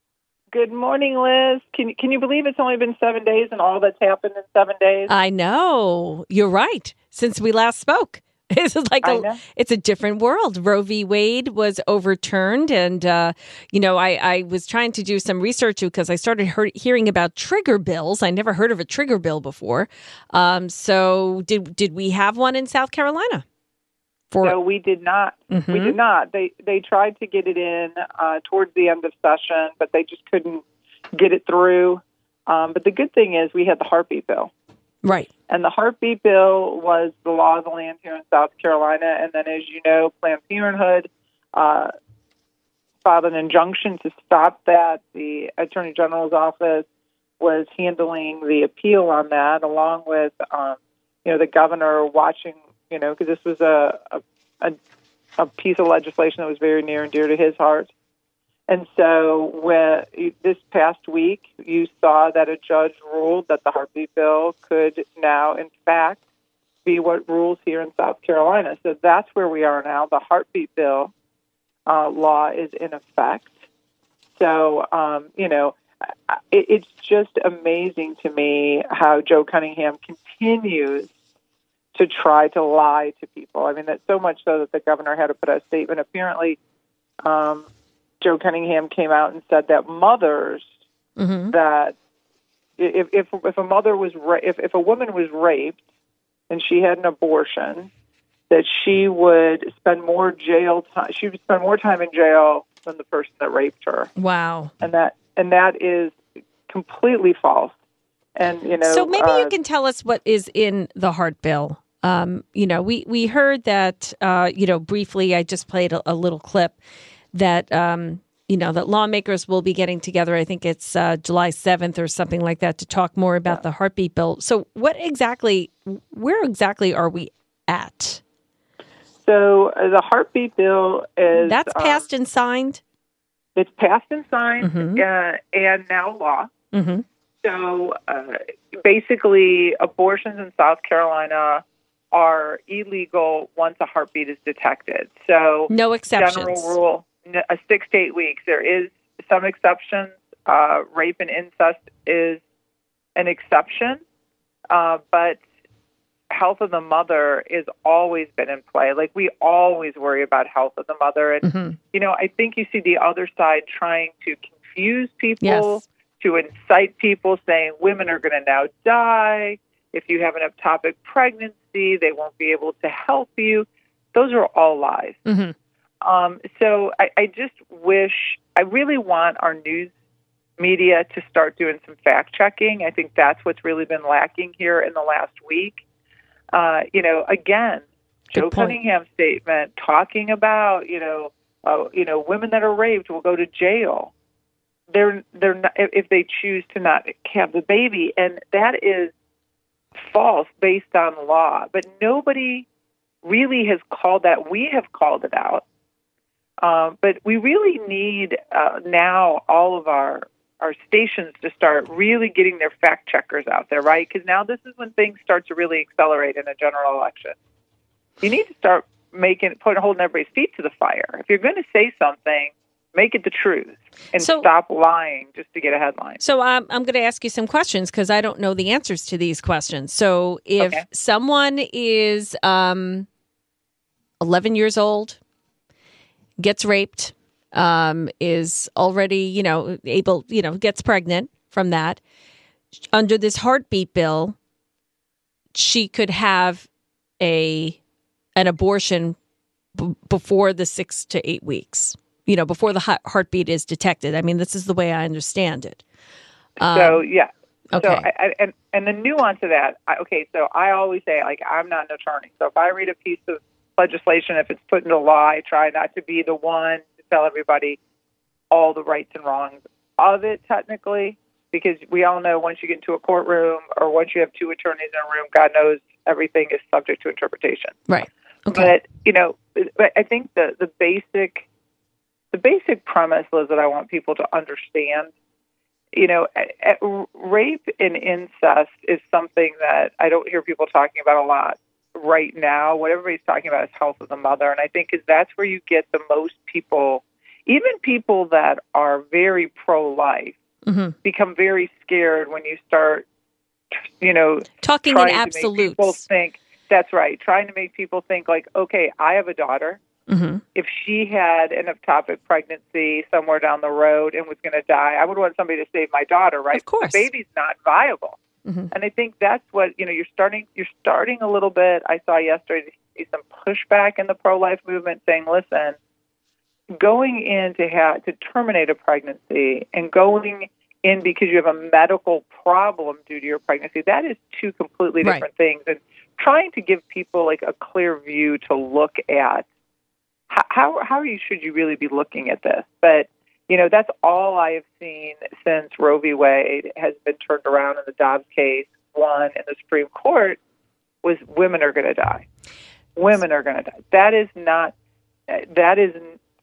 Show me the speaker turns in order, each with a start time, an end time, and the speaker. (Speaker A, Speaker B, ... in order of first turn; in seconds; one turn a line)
Speaker A: 0.5-5.1
Speaker B: 5.1-23.4
Speaker A: 9.0-9.4
Speaker B: 24.3-24.6
Speaker A: 24.4-34.5
Speaker B: 25.5-25.9
Speaker B: 35.0-35.3
Speaker A: 35.5-41.9
Speaker A: 43.0-46.9
Speaker A: 47.4-54.8
Speaker A: 55.4-57.9
Speaker A: 58.7-66.2
Speaker A: 66.8-71.1
Speaker A: 71.8-73.5
Speaker A: 74.4-81.1
Speaker A: 81.9-86.6
Speaker A: 87.2-87.7
Speaker A: 88.2-90.7
Speaker B: 91.2-91.5
Speaker A: 91.5-92.0
Speaker A: 92.8-95.8
Speaker A: 96.5-97.9
Speaker A: 98.5-104.1
Speaker B: 104.2-104.7
Speaker A: 104.8-106.2
Speaker A: 106.7-107.7
Speaker A: 108.3-109.5
Speaker B: 108.8-116.8
Speaker B: 117.3-128.2
Speaker A: 129.2-132.0
Speaker B: 131.3-132.8
Speaker A: 133.6-136.5
Speaker B: 134.6-135.0
Speaker B: 136.7-137.0
Speaker A: 137.4-152.4
Speaker B: 145.7-146.8
Speaker A: 153.1-154.0
Speaker A: 154.7-155.4
Speaker A: 156.3-175.2
Speaker B: 161.4-161.8
Speaker B: 165.4-165.8
Speaker B: 175.2-175.5
Speaker A: 176.0-179.9
Speaker A: 180.6-185.8
Speaker A: 186.5-194.1
Speaker B: 188.3-188.8
Speaker A: 194.9-199.1
Speaker A: 200.0-202.7
Speaker A: 203.2-205.6
Speaker A: 206.6-217.4
Speaker A: 218.2-226.2
Speaker B: 224.2-224.5
Speaker B: 226.2-233.1
Speaker B: 234.2-235.2
Speaker B: 236.4-242.0
Speaker B: 242.9-244.3
Speaker B: 245.5-246.7
Speaker B: 247.2-247.8
Speaker B: 248.3-249.2
Speaker B: 249.8-255.8
Speaker B: 256.6-257.0
Speaker A: 256.7-267.8
Speaker B: 257.7-258.1
Speaker A: 268.5-277.8
Speaker B: 277.9-278.7
Speaker A: 278.5-281.4
Speaker A: 282.3-285.1
Speaker A: 285.9-300.4
Speaker B: 300.6-300.9
Speaker A: 301.0-303.1
Speaker A: 304.0-309.8
Speaker B: 304.6-306.0
Speaker B: 310.1-310.4
Speaker A: 310.5-318.2
Speaker B: 316.5-317.1
Speaker A: 318.7-325.8
Speaker A: 326.7-339.4
Speaker A: 340.3-350.4
Speaker A: 351.0-352.2
Speaker A: 352.9-354.7
Speaker A: 355.3-356.2